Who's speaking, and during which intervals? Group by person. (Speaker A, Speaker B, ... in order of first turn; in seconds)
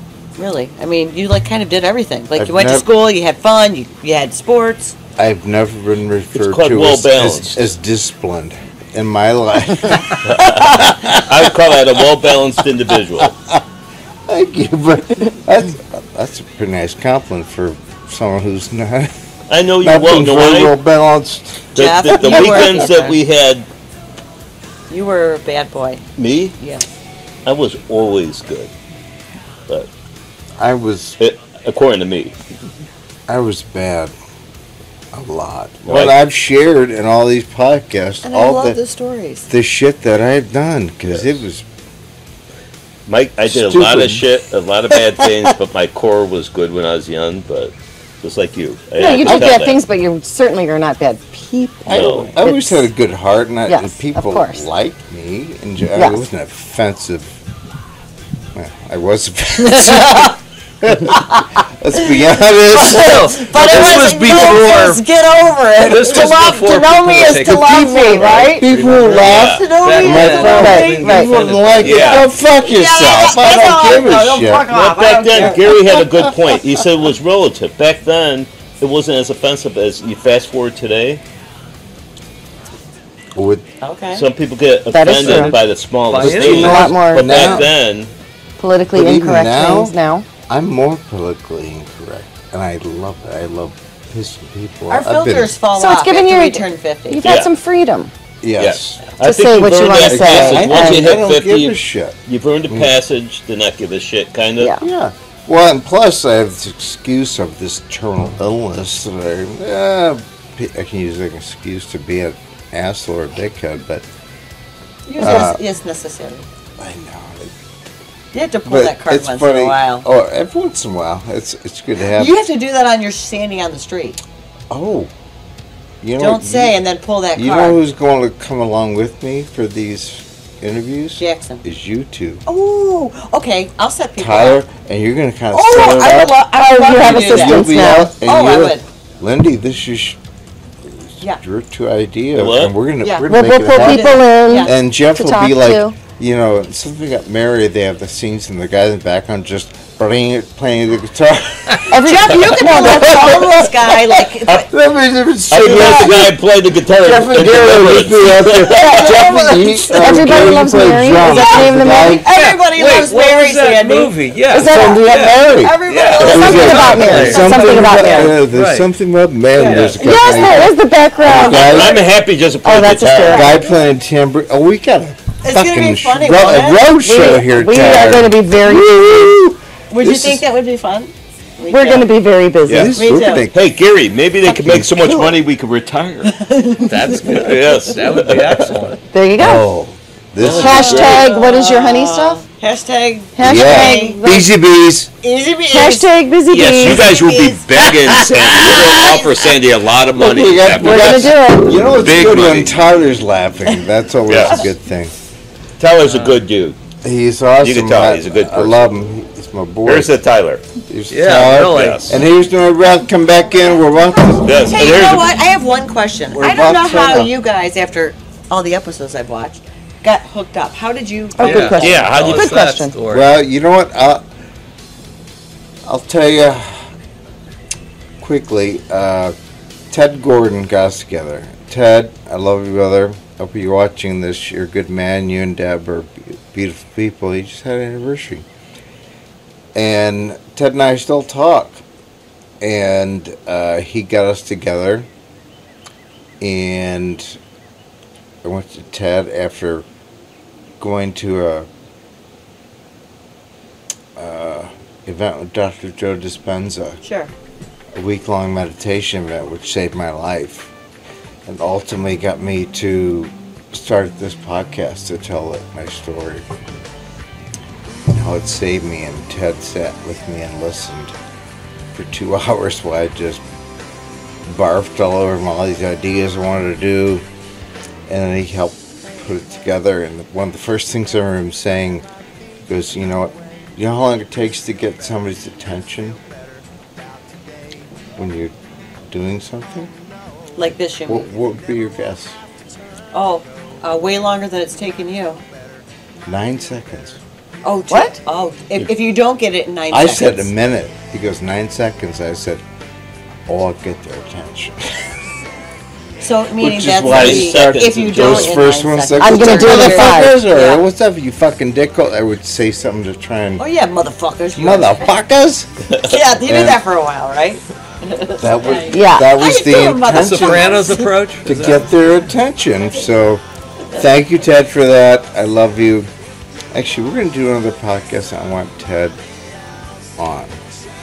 Speaker A: 0.4-5.0, 21.8-23.2, 24.9-26.0, 26.6-26.9, 38.2-39.5, 59.6-60.4, 61.1-61.4, 62.8-76.2, 83.8-84.3, 94.9-97.3, 115.1-116.5, 118.3-120.1, 122.1-124.2, 126.2-127.8, 131.2-131.6, 132.5-134.6, 135.5-138.8, 143.0-144.8, 151.9-154.7, 158.8-160.1, 161.2-164.2, 164.7-167.8, 175.4-176.9, 179.9-182.1, 182.9-183.5, 184.4-185.4, 186.3-187.4, 190.4-194.2, 195.2-196.1, 196.8-199.4, 214.6-222.0, 257.0-257.3, 290.6-291.3, 293.1-295.4, 297.6-300.5, 306.2-310.8, 313.6-315.1, 316.0-321.2
Speaker B: 2.4-2.9, 5.2-11.3, 13.2-13.5, 14.3-19.1, 19.8-21.7, 22.2-22.7, 30.6-31.2, 33.3-34.1, 35.1-38.8, 39.5-41.6, 43.5-44.2, 49.2-49.6, 51.9-57.4, 58.5-64.0, 68.2-74.7, 83.4-83.7, 86.2-87.7, 88.9-90.0, 90.5-95.5, 98.4-99.0, 100.0-102.2, 104.8-114.0, 115.2-115.6, 116.8-117.5, 118.7-122.3, 124.7-125.1, 126.0-126.8, 127.4-132.4, 134.2-136.4, 136.9-140.2, 141.2-151.9, 152.7-153.9, 154.5-156.4, 157.0-162.2, 164.7-172.0, 173.2-180.4, 182.7-183.6, 189.4-191.2, 193.4-195.1, 198.7-198.9, 200.2-205.1, 207.0-210.1, 210.9-214.8, 216.3-217.3, 223.1-224.2, 225.9-226.9, 228.2-229.3, 229.9-238.5, 239.8-241.8, 242.6-245.1, 246.4-247.4, 248.4-249.8, 250.8-251.7, 254.2-257.0, 257.9-260.7, 261.5-266.5, 268.1-271.1, 271.9-273.4, 274.4-277.2, 278.1-282.1, 282.7-286.2, 288.2-288.5, 289.1-289.9, 291.1-292.4, 296.2-297.2, 299.9-302.6, 303.5-305.0, 306.6-313.6, 314.6-315.7, 316.4-316.8, 318.4-323.4, 323.9-326.1, 326.7-329.2, 330.2-330.6
Speaker C: 6.3-7.6, 10.2-13.3, 19.5-20.7, 21.8-23.7, 26.2-26.6, 27.5-28.7, 31.2-32.4, 35.9-36.2, 43.1-49.8, 51.9-52.3, 69.2-69.7, 71.8-72.3, 74.7-81.2, 84.1-88.1, 97.2-97.5, 98.6-104.8, 142.4-142.8, 155.5-159.3, 166.0-167.4, 171.2-173.6, 182.7-182.9, 183.5-186.3, 187.3-188.7, 190.4-191.2, 196.5-201.4, 201.9-202.7, 204.3-204.7, 205.8-206.8, 207.6-208.8, 209.9-210.6, 211.4-212.1, 214.4-215.4, 221.6-222.8, 306.6-308.7
Speaker D: 49.0-52.9, 53.7-54.7, 67.5-68.6, 70.3-71.3, 84.9-85.6, 86.6-87.6, 88.6-90.3, 95.7-98.1, 99.2-101.2, 136.5-138.1, 143.3-145.9, 151.9-153.7, 157.7-158.0, 158.7-159.2, 159.9-162.2, 164.5-168.4, 170.0-172.0, 172.6-173.6, 177.0-179.4, 181.7-183.0, 189.1-189.7, 190.5-192.4, 193.3-194.5, 195.7-197.1, 200.7-202.0, 221.4-222.9, 297.9-298.2, 309.2-310.4, 318.9-319.4
Speaker E: 62.8-65.0, 65.8-72.3, 85.1-86.9, 162.3-168.9, 169.6-170.2, 186.8-189.0, 206.0-206.4, 211.1-212.2, 221.4-223.3, 320.1-321.9